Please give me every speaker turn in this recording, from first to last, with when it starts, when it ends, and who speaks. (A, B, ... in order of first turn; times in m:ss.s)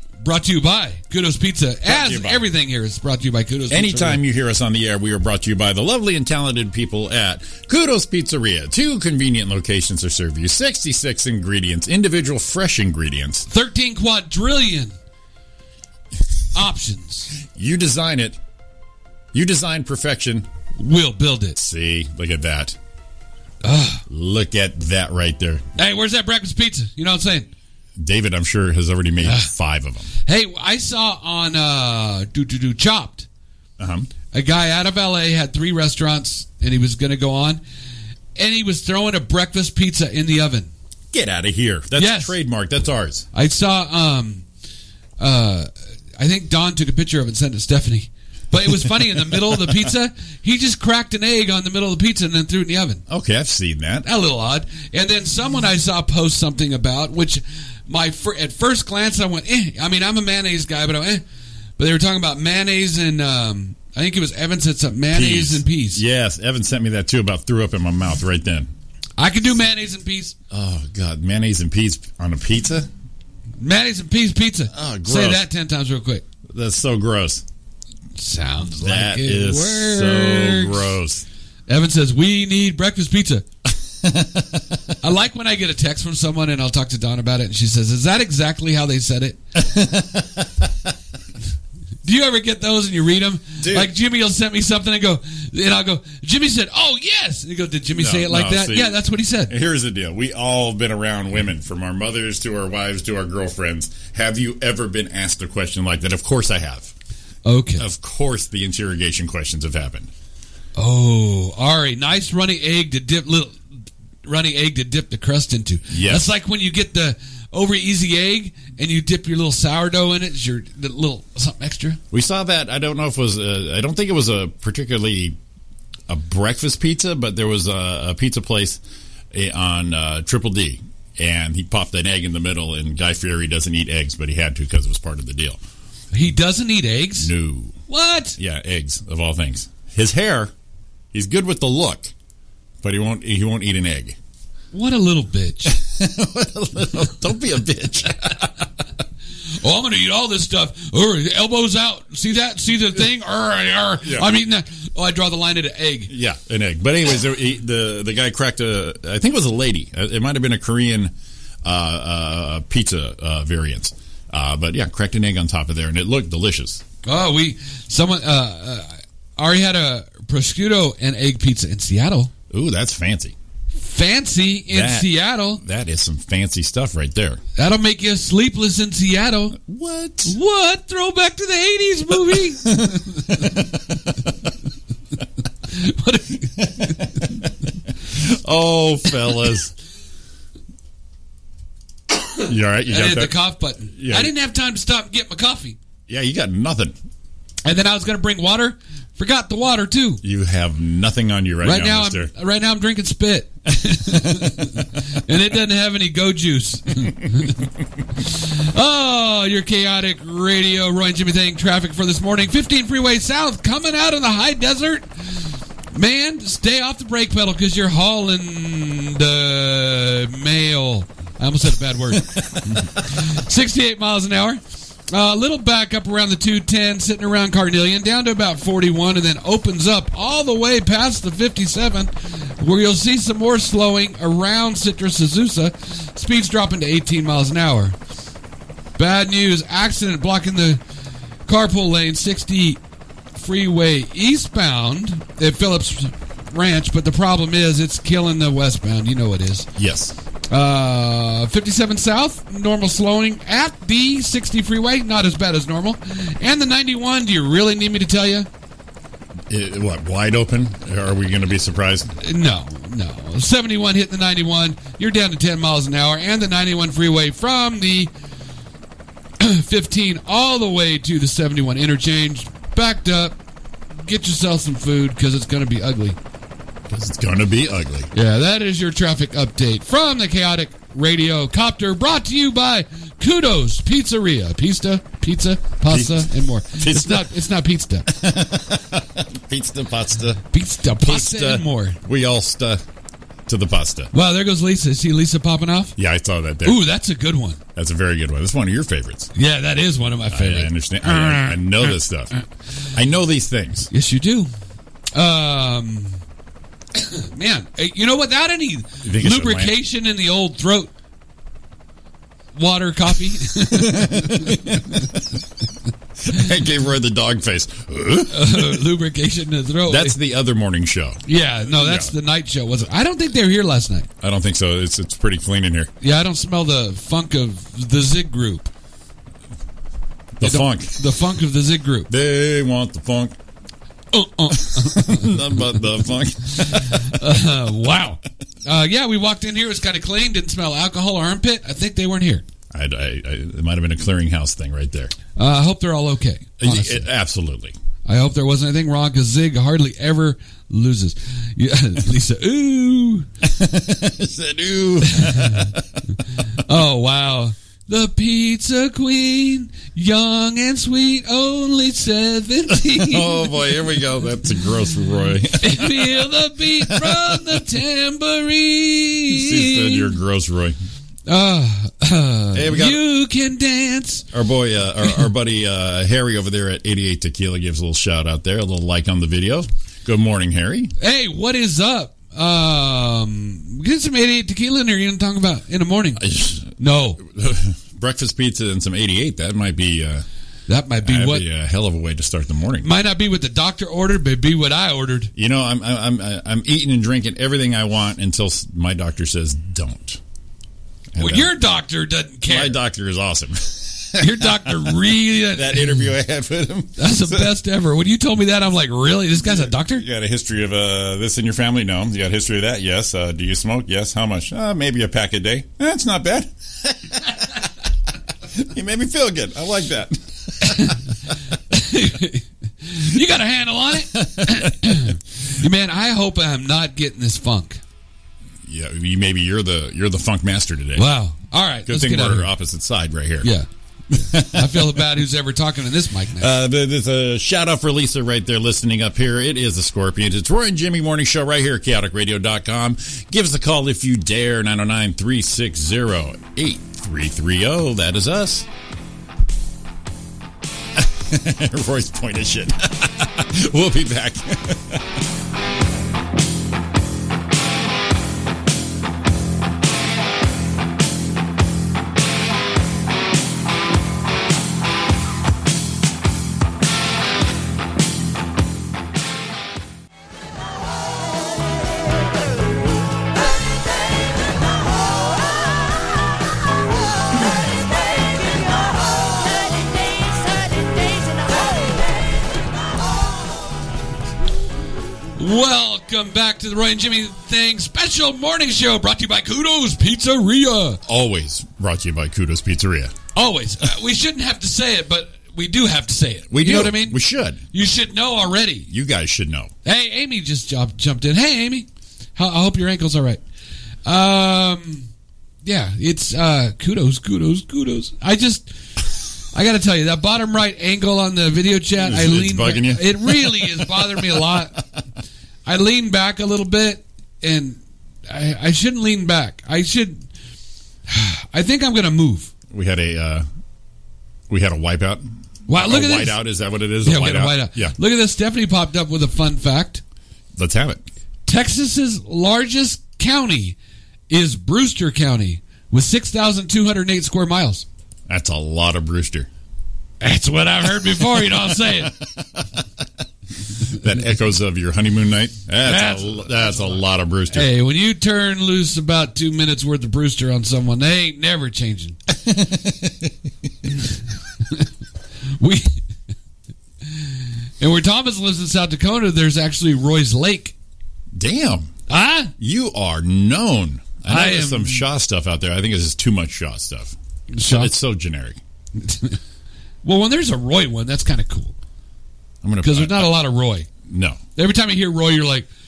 0:00.2-0:04.2 A
0:01.8-0:02.5 B
0:03.7-0:13.5 B
0:13.5-0:15.0 A
0:16.5-0:17.3 A
0:17.5-0:18.4 B
0:19.3-0:20.5 B
0:20.8-0:21.6 A
0:21.6-0:22.8 B
0:23.6-0:24.0 A
0:24.1-0:25.7 B
0:25.8-0:27.5 A
0:28.0-0:30.1 B
0:29.2-0:29.5 A
0:30.3-0:33.3 A
0:33.8-0:34.1 B
0:34.3-0:37.6 A
0:38.4-0:40.7 A
0:41.1-0:43.3 B
0:42.0-0:42.4 A
0:43.3-0:44.4 A
0:45.2-0:53.0 A
0:53.1-0:54.1 B
0:54.0-1:01.2 A
1:01.8-1:06.0 A
1:05.1-1:08.7 B
1:09.2-1:10.4 A
1:10.5-1:12.9 B
1:13.6-1:16.2 A
1:14.7-1:15.4 B
1:16.5-1:17.4 B
1:18.2-1:20.9 A
1:18.8-1:21.3 B
1:21.7-1:23.4 A
1:24.0-1:24.8 B
1:25.0-1:29.4 A
1:29.6-1:30.9 B
1:32.0-1:39.5 A
1:33.6-1:33.9 B
1:38.0-1:46.9 B
1:47.4-1:47.8 A
1:47.8-1:50.1 B
1:50.8-1:53.6 A
1:54.2-2:02.0 A
1:55.9-1:56.3 B
2:02.1-2:05.4 B
2:06.1-2:08.8 B
2:09.3-2:15.6 B
2:16.1-2:17.3 A
2:17.2-2:17.8 B
2:17.9-2:18.4 A
2:18.4-2:20.5 B
2:21.1-2:22.1 B
2:22.8-2:24.2 B
2:24.7-2:25.8 A
2:25.7-2:28.5 B
2:29.6-2:36.1 A
2:34.0-2:34.3 B
2:36.1-2:46.8 B
2:47.0-2:52.3 A
2:52.5-2:53.4 B
2:53.8-2:55.6 A
2:54.7-2:57.4 B
2:57.6-2:59.6 A
2:59.6-3:00.4 B
3:00.3-3:03.3 A
3:02.5-3:04.5 B
3:05.7-3:07.3 A
3:06.6-3:07.5 B
3:08.0-3:09.7 B
3:12.4-3:13.4 B
3:12.9-3:15.8 A
3:13.9-3:14.3 B
3:16.1-3:17.0 B
3:17.6-3:20.2 A
3:20.2-3:22.3 B
3:21.6-3:27.6 A
3:24.0-3:24.7 B
3:28.2-3:58.0 A
3:59.0-4:00.8 A
4:01.5-4:02.8 A
4:03.4-4:09.7 A
4:09.8-4:10.2 B
4:10.5-4:18.5 A
4:19.5-4:22.1 B
4:22.2-4:28.1 A
4:29.4-4:33.4 A
4:34.0-4:36.2 A
4:36.9-4:38.1 B
4:38.1-4:48.1 A
4:45.9-4:47.3 B
4:48.1-4:50.4 B
4:50.5-4:52.0 A
4:51.0-4:52.8 B
4:53.5-4:54.1 B
4:54.1-4:56.0 A
4:56.0-4:56.8 B
4:56.6-4:57.6 A
4:57.8-4:59.3 B
4:59.4-5:02.4 A
5:00.3-5:02.3 B
5:02.9-5:03.9 B
5:03.9-5:04.5 A
5:05.1-5:06.2 A
5:07.0-5:10.9 A
5:09.0-5:09.8 B
5:12.6-5:15.0 A
5:13.7-5:15.2 B
5:16.2-5:18.9 B
5:18.3-5:20.2 A
5:19.9-5:22.1 B
5:21.3-5:24.1 A
5:24.2-5:25.9 B
5:26.0-5:28.7 A
5:30.4-5:31.0 B
5:30.4-5:32.1 A
5:32.1-5:33.4 B
5:34.1-5:35.4 A
5:34.5-5:37.2 B
5:36.9-5:42.4 A
5:42.7-5:45.1 B
5:45.4-5:47.1 A
5:46.6-5:47.8 B
5:48.0-5:53.3 A
5:53.4-5:55.8 B
5:55.1-5:55.7 A
5:56.6-6:03.5 A
6:02.8-6:07.6 B
6:05.6-6:10.1 A
6:09.3-6:10.8 B
6:11.3-6:14.2 A
6:12.5-6:13.0 B
6:14.3-6:20.9 B
6:21.0-6:27.2 A
6:26.2-6:30.2 B
6:30.7-6:31.5 A
6:31.0-6:32.9 B
6:32.8-6:35.3 A
6:35.4-6:40.2 B
6:41.1-6:41.5 B
6:41.2-6:42.8 A
6:42.5-6:47.6 B
6:44.2-6:46.1 A
6:47.0-6:50.0 A
6:49.4-6:57.6 B
6:58.5-7:01.1 B
7:00.7-7:01.0 A
7:01.7-7:07.8 A
7:04.2-7:05.1 B
7:08.7-7:11.1 B
7:11.0-7:12.5 A
7:11.9-7:13.5 B
7:13.4-7:16.5 A
7:14.1-7:15.1 B
7:16.4-7:28.7 B
7:31.0-7:35.0 B
8:05.4-8:11.0 A
8:11.1-8:13.1 B
8:13.4-8:17.2 A
8:16.5-8:17.6 B
8:17.7-8:18.9 A
8:18.9-8:19.7 B
8:19.8-8:23.4 A
8:24.0-8:25.1 A
8:25.6-8:28.7 A
8:29.5-8:34.8 A
8:32.0-8:34.8 B
8:35.6-8:40.3 A
8:41.1-8:42.5 A
8:42.7-8:43.5 B
8:44.5-8:48.0 B
8:45.7-8:46.4 A
8:47.0-8:50.0 A
8:50.6-8:51.0 B
8:51.5-8:53.8 A
8:54.3-8:57.9 A
8:58.3-8:59.5 B
9:00.2-9:02.1 A
9:01.7-9:02.8 B
9:03.9-9:07.7 B
9:05.8-9:07.0 A
9:07.5-9:12.2 A
9:12.4-9:13.3 B
9:15.6-9:16.0 A
9:17.1-9:20.8 A
9:21.3-9:21.9 B
9:22.1-9:22.5 A
9:22.6-9:27.2 B
9:24.3-9:25.1 A
9:27.5-9:27.9 A
9:27.7-9:28.6 B
9:29.0-9:29.4 A
9:30.0-9:31.7 A
9:32.6-9:33.4 B
9:32.8-9:33.9 A
9:34.1-9:34.4 B
9:34.6-9:35.7 A